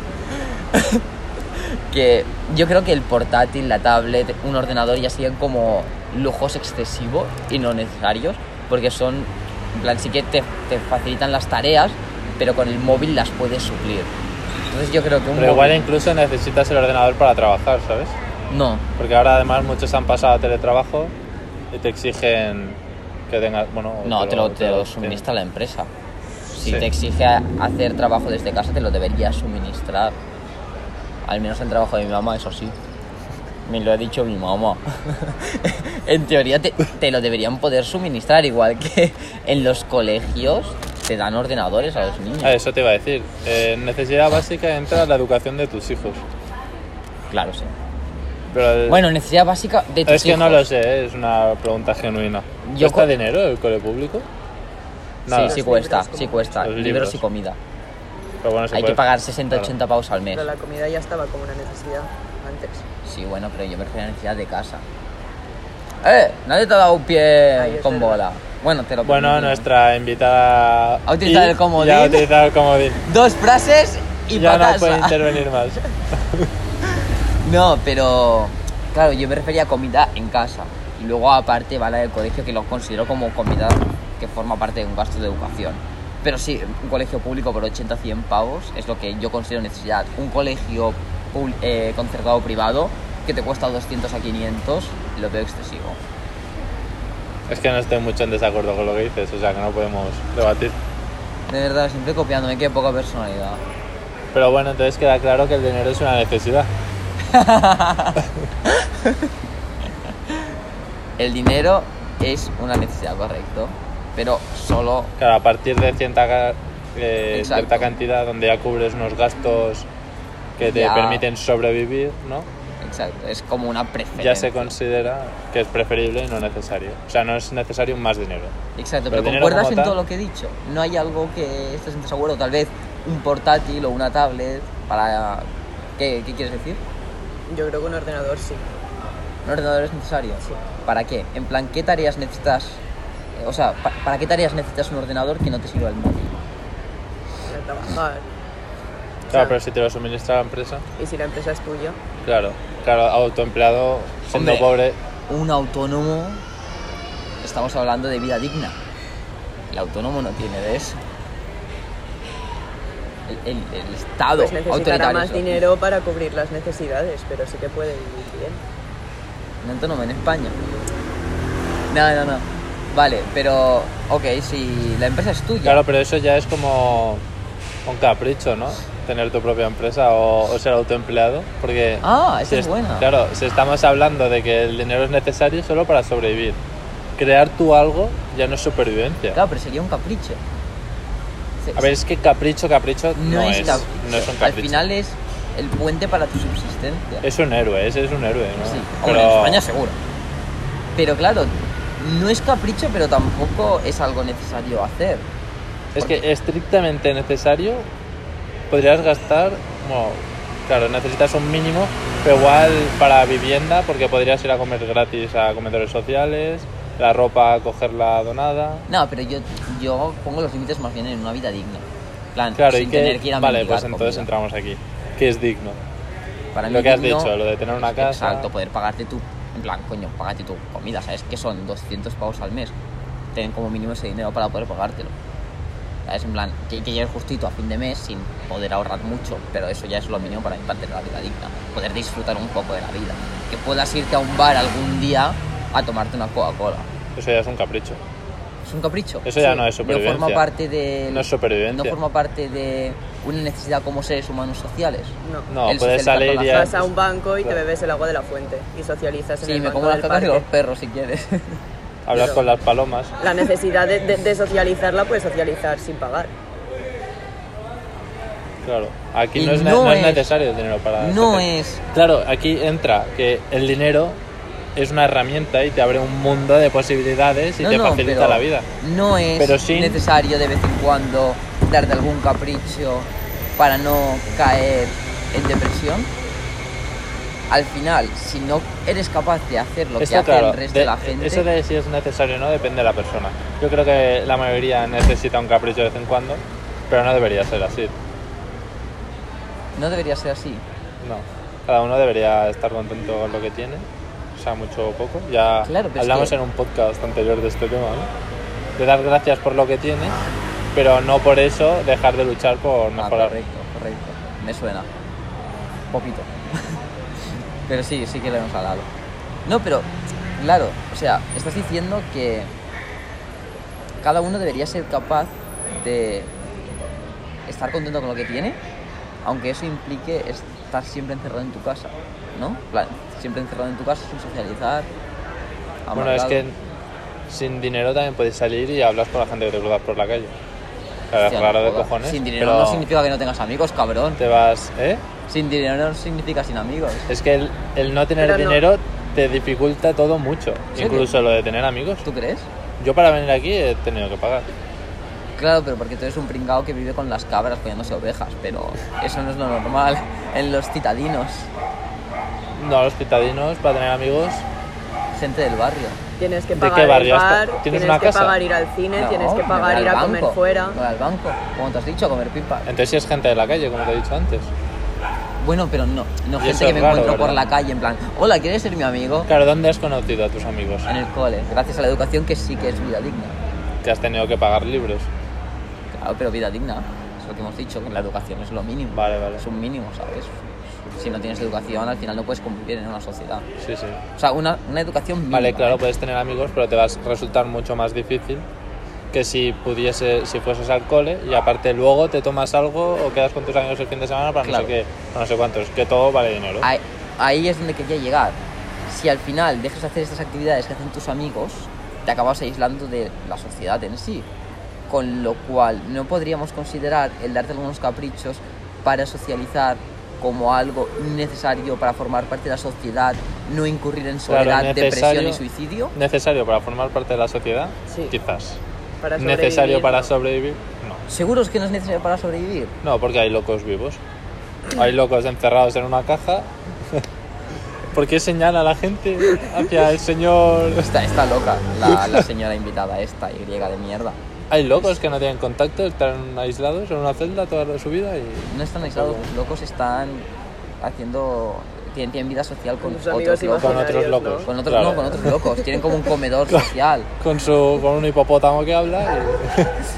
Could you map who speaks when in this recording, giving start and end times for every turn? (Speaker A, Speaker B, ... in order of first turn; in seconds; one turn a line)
Speaker A: 0.3-1.0
Speaker A: 1.6-14.1
Speaker A: 14.7-15.9
Speaker B: 15.3-18.1
Speaker A: 18.5-18.8
Speaker B: 19.0-21.1
Speaker B: 21.7-25.2
Speaker A: 24.0-25.9
Speaker A: 26.5-30.1
Speaker B: 26.6-26.9
Speaker A: 31.2-32.7
Speaker A: 33.6-42.6
Speaker B: 42.4-46.2
Speaker A: 47.3-47.7
Speaker B: 48.5-49.0
Speaker A: 48.9-50.7
Speaker B: 50.1-54.3
Speaker A: 52.6-53.1
Speaker B: 55.2-55.6
Speaker A: 55.3-57.6
Speaker C: 55.3-56.6
Speaker B: 56.6-57.2
Speaker B: 58.4-59.0
Speaker A: 58.7-60.5
Speaker C: 60.3-62.9
Speaker A: 63.0-64.8
Speaker A: 66.0-69.7
Speaker C: 67.6-68.2
Speaker B: 69.0-73.0
Speaker A: 71.0-72.3
Speaker A: 73.0-75.4
Speaker B: 74.3-76.5
Speaker A: 77.4-96.0
Speaker B: 97.5-100.8
Speaker A: 101.5-103.6
Speaker B: 104.3-106.7
Speaker A: 107.3-109.2
Speaker A: 111.2-115.1
Speaker B: 115.2-119.9
Speaker A: 117.3-117.9
Speaker B: 120.6-122.5
Speaker A: 120.6-121.2
Speaker A: 122.8-124.7
Speaker B: 124.2-128.5
Speaker A: 128.8-136.8
Speaker B: 129.1-130.0
Speaker C: 137.5-138.8
Speaker A: 139.4-142.8
Speaker A: 143.4-146.4
Speaker C: 147.5-148.2
Speaker C: 149.3-149.5
Speaker B: 149.3-150.8
Speaker C: 151.0-152.0
Speaker B: 152.2-155.0
Speaker A: 154.3-154.7
Speaker A: 155.3-156.4
Speaker A: 157.4-158.8
Speaker A: 159.7-161.0
Speaker A: 163.3-165.7
Speaker C: 164.3-168.6
Speaker A: 169.6-170.6
Speaker A: 171.9-175.8
Speaker B: 175.6-177.2
Speaker B: 177.8-186.6
Speaker A: 182.0-183.1
Speaker B: 187.2-189.4
Speaker A: 189.3-190.4
Speaker A: 191.6-192.0
Speaker B: 191.8-194.8
Speaker A: 193.1-197.2
Speaker B: 197.2-199.6
Speaker A: 198.6-199.9
Speaker A: 200.9-205.2
Speaker B: 205.9-207.9
Speaker A: 206.0-206.2
Speaker B: 208.7-218.8
Speaker A: 218.9-224.3
Speaker B: 222.6-225.8
Speaker A: 226.5-232.7
Speaker B: 226.7-228.5
Speaker A: 233.3-235.1
Speaker A: 236.1-246.9
Speaker B: 247.2-248.0
Speaker A: 248.6-256.8
Speaker B: 249.2-250.4
Speaker B: 251.1-252.0
Speaker C: 255.2-255.5
Speaker B: 255.5-256.9
Speaker C: 256.5-260.4
Speaker A: 259.4-261.6
Speaker B: 262.0-263.1
Speaker C: 262.1-262.4
Speaker C: 263.2-266.3
Speaker B: 268.6-274.2
Speaker A: 269.3-270.3
Speaker A: 271.0-271.8
Speaker B: 274.8-278.7
Speaker A: 277.6-286.1
Speaker B: 279.4-280.0
Speaker A: 287.5-291.5
Speaker B: 290.0-297.9
Speaker A: 299.7-300.6
Speaker B: 301.0-308.1
Speaker A: 305.6-306.4
Speaker B: 308.8-310.1
Speaker B: 310.7-313.3
Speaker A: 313.0-314.9
Speaker A: 315.9-316.3
Speaker A: 317.7-318.9
Speaker A: 319.4-322.5
Speaker A: 324.0-326.3
Speaker A: 327.4-328.6
Speaker A: 329.2-334.9
Speaker A: 335.9-336.4
Speaker B: 335.9-336.6
Speaker B: 337.3-340.3
Speaker B: 341.1-342.9
Speaker A: 341.2-344.2
Speaker B: 344.2-345.0
Speaker A: 345.3-347.1
Speaker B: 347.1-352.1
Speaker C: 348.2-348.6
Speaker A: 350.7-351.1
Speaker A: 352.0-352.5
Speaker B: 352.8-354.5
Speaker A: 355.4-361.5
Speaker B: 362.5-364.4
Speaker A: 365.1-366.0
Speaker C: 366.2-370.8
Speaker B: 366.5-368.4
Speaker A: 368.9-372.7
Speaker B: 372.6-374.5
Speaker A: 375.4-379.3
Speaker B: 376.4-377.4
Speaker B: 379.3-380.9
Speaker A: 380.9-383.4
Speaker B: 383.8-385.1
Speaker A: 386.0-393.4
Speaker B: 388.9-389.4
Speaker B: 393.6-394.0
Speaker A: 394.1-395.8
Speaker B: 395.3-398.4
Speaker B: 399.1-406.7
Speaker A: 404.4-404.7
Speaker A: 406.6-414.3
Speaker A: 414.9-425.9
Speaker B: 424.3-425.4
Speaker B: 425.9-428.6
Speaker C: 427.9-428.1
Speaker C: 429.0-430.1
Speaker B: 429.2-431.0
Speaker A: 431.1-432.8
Speaker B: 432.8-434.0
Speaker B: 434.7-437.0
Speaker B: 437.9-440.9
Speaker A: 440.8-444.2
Speaker B: 441.9-442.2
Speaker B: 444.5-449.3
Speaker A: 448.4-450.3
Speaker A: 450.8-457.1
Speaker C: 452.8-454.5
Speaker B: 453.6-455.3
Speaker B: 457.2-459.7